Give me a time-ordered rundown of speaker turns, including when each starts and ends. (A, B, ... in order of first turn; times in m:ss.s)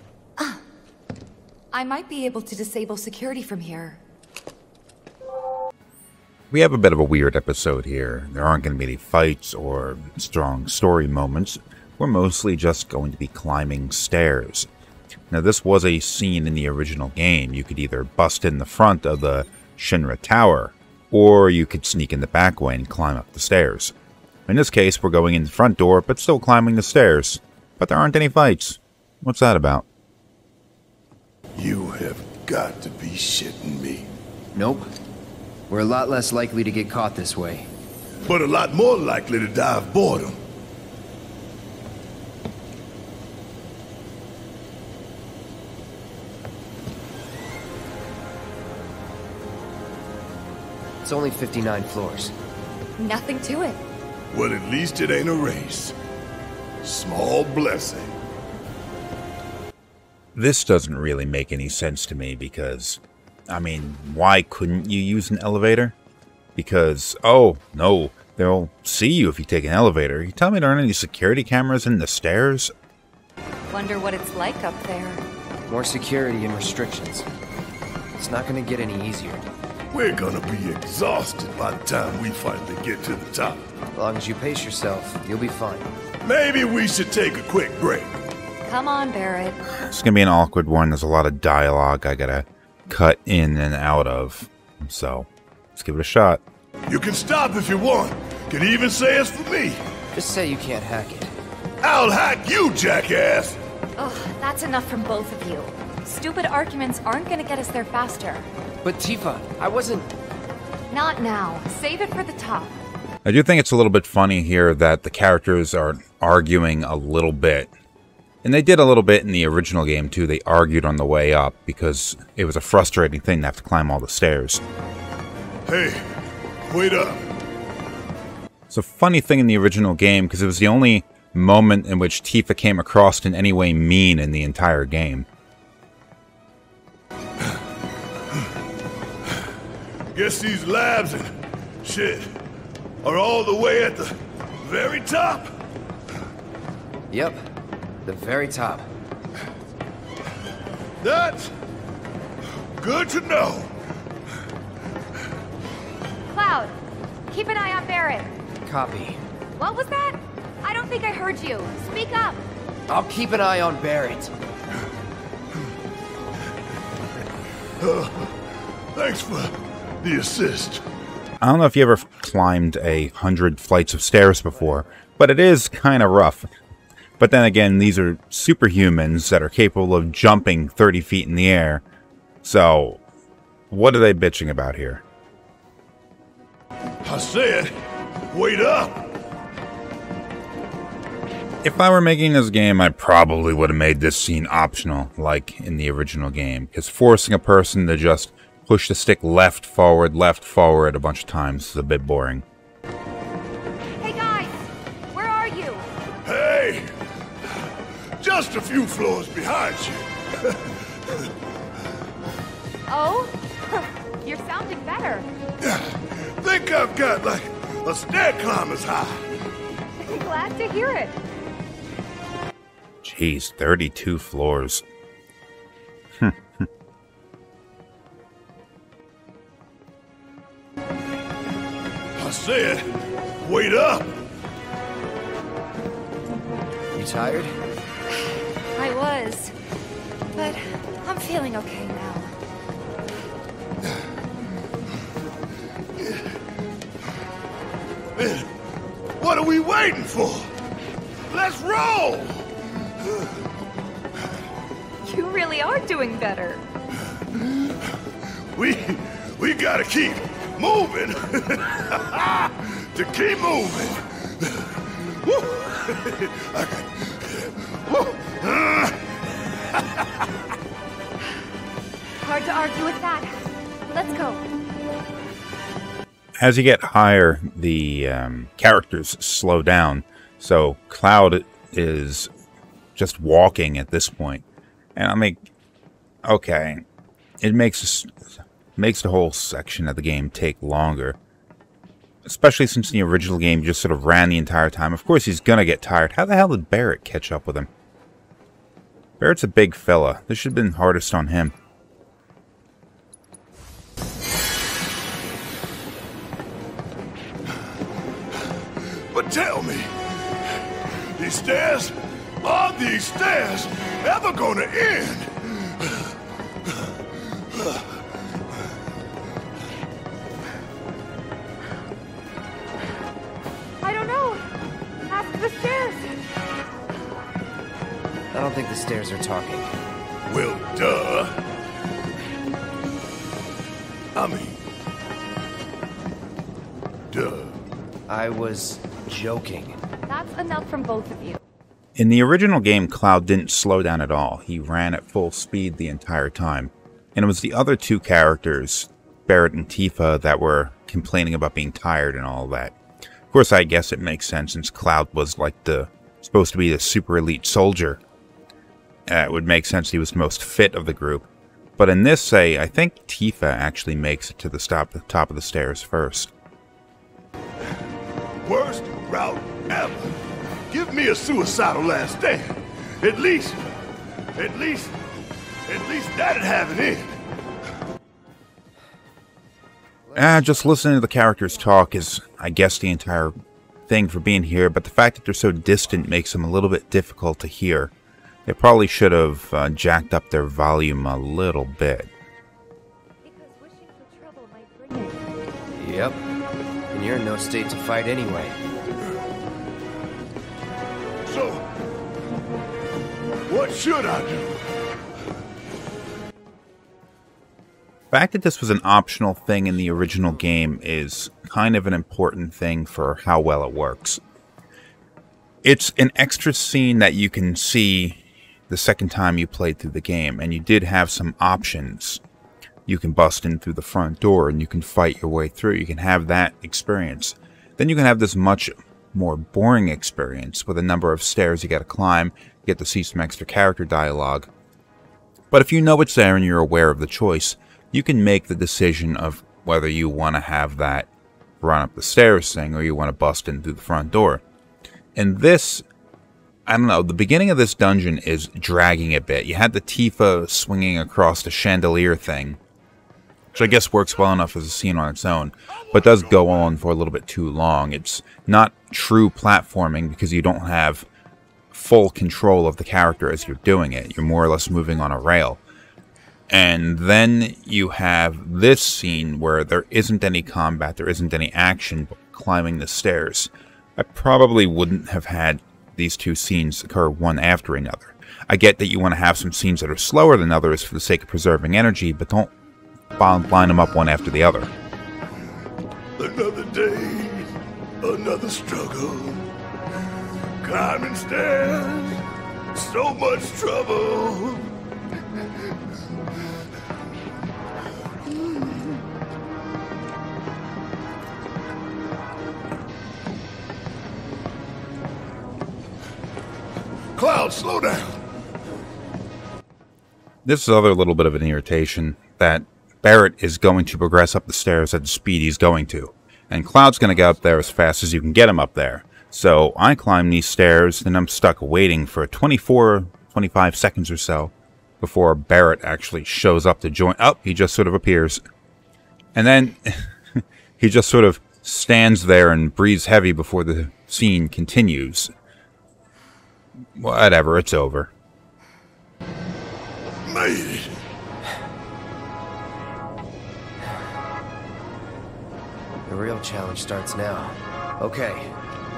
0:01.7-0:04.0 A
0:06.5-0:14.7 B
0:15.3-0:23.9 B
0:24.5-0:29.9 B
0:31.6-0:34.1 C
0:34.6-0:34.9 D
0:35.7-0:37.7 D
0:38.2-0:40.4 C
0:51.0-0:52.3 D
0:53.0-0:53.8 A
0:54.3-0:56.0 C
0:56.8-0:58.1 C
1:00.4-1:06.0 B
1:06.6-1:12.7 B
1:13.7-1:15.2 A
1:15.7-1:17.3 D
1:18.2-1:19.4 D
1:19.9-1:23.6 C
1:23.9-1:25.9 D
1:26.2-1:28.1 C
1:28.7-1:29.6 A
1:29.7-1:36.4 B
1:36.9-1:39.8 C
1:40.1-1:41.3 D
1:41.8-1:43.6 C
1:44.0-1:48.5 A
1:48.8-1:50.1 D
1:50.9-1:52.7 A
1:53.2-1:57.7 B
1:58.4-2:04.6 B
2:05.7-2:06.0 C
2:06.7-2:07.2 C
2:08.7-2:15.3 B
2:20.1-2:22.3 C
2:23.0-2:25.6 C
2:27.1-2:27.4 D
2:28.0-2:28.9 D
2:31.0-2:31.5 C
2:32.8-2:33.7 C
2:36.3-2:36.7 A
2:37.3-2:38.4 A
2:38.7-2:39.2 D
2:39.6-2:42.4 A
2:42.9-2:44.3 D
2:47.8-2:48.3 C
2:48.9-2:50.8 C
2:51.4-2:56.5 B
2:57.2-3:01.8 B
3:02.4-3:03.0 B
3:03.7-3:05.0 B
3:07.0-3:07.7 C
3:08.3-3:09.1 C
3:11.6-3:22.4 B
3:24.0-3:24.6 A
3:25.1-3:25.9 A
3:26.2-3:26.9 C
3:28.2-3:31.3 C
3:32.9-3:35.3 A
3:35.6-3:39.3 C
3:40.0-3:41.2 A
3:43.0-3:44.8 B
3:46.2-3:46.6 B
3:52.2-3:54.2 C
3:56.9-3:57.5 D
3:58.7-3:59.5 A
4:00.3-4:02.3 A
4:06.0-4:06.2 C
4:08.2-4:08.5 C
4:09.2-4:10.5 C
4:11.3-4:12.5 C
4:13.0-4:13.3 C
4:15.0-4:16.6 A
4:17.3-4:17.8 C
4:18.4-4:29.1 C
4:29.7-4:30.1 C
4:32.2-4:34.4 A
4:36.4-4:42.3 B
4:43.0-4:44.4 B
4:45.0-4:45.4 B
4:46.2-4:46.8 B
4:47.4-4:48.1 B
4:48.8-4:51.2 B
4:52.2-4:57.7 B
4:59.2-5:01.6 B
5:08.9-5:10.0 C
5:10.9-5:16.1 C
5:17.5-5:17.8 C
5:23.8-5:24.5 A
5:25.0-5:26.2 A
5:28.3-5:29.7 D
5:30.3-5:31.4 C
5:34.2-5:34.6 C
5:37.1-5:37.6 C
5:38.1-5:39.8 D
5:40.1-5:41.4 A
5:42.0-5:52.8 B
5:53.3-5:58.0 B
5:59.1-6:01.3 B
6:01.8-6:06.3 B
6:08.4-6:10.2 C
6:10.7-6:13.6 C
6:14.4-6:15.0 C
6:15.7-6:17.2 C
6:20.1-6:20.3 D
6:20.1-6:23.3 B
6:23.9-6:27.9 B
6:28.5-6:32.1 B
6:33.2-6:35.2 A
6:35.8-6:36.2 D
6:36.9-6:38.6 D
6:41.2-6:41.6 C
6:43.5-6:44.6 C
6:48.1-6:54.2 B
6:55.6-7:02.2 B
7:02.9-7:14.5 B
7:15.5-7:21.1 B
7:21.6-7:24.4 B
7:25.2-7:25.8 B
7:26.7-7:32.6 B
7:33.5-7:41.1 B
7:41.7-7:45.6 B
7:46.5-8:02.5 B
8:03.2-8:04.7 B
8:06.2-8:07.5 C
8:08.0-8:09.4 C
8:10.6-8:12.2 C
8:12.7-8:14.7 C
8:27.2-8:28.2 C
8:30.4-8:48.4 B
8:49.4-8:50.1 B
8:50.8-8:55.3 B
8:57.0-8:58.1 B
9:00.3-9:01.0 C
9:06.1-9:08.5 D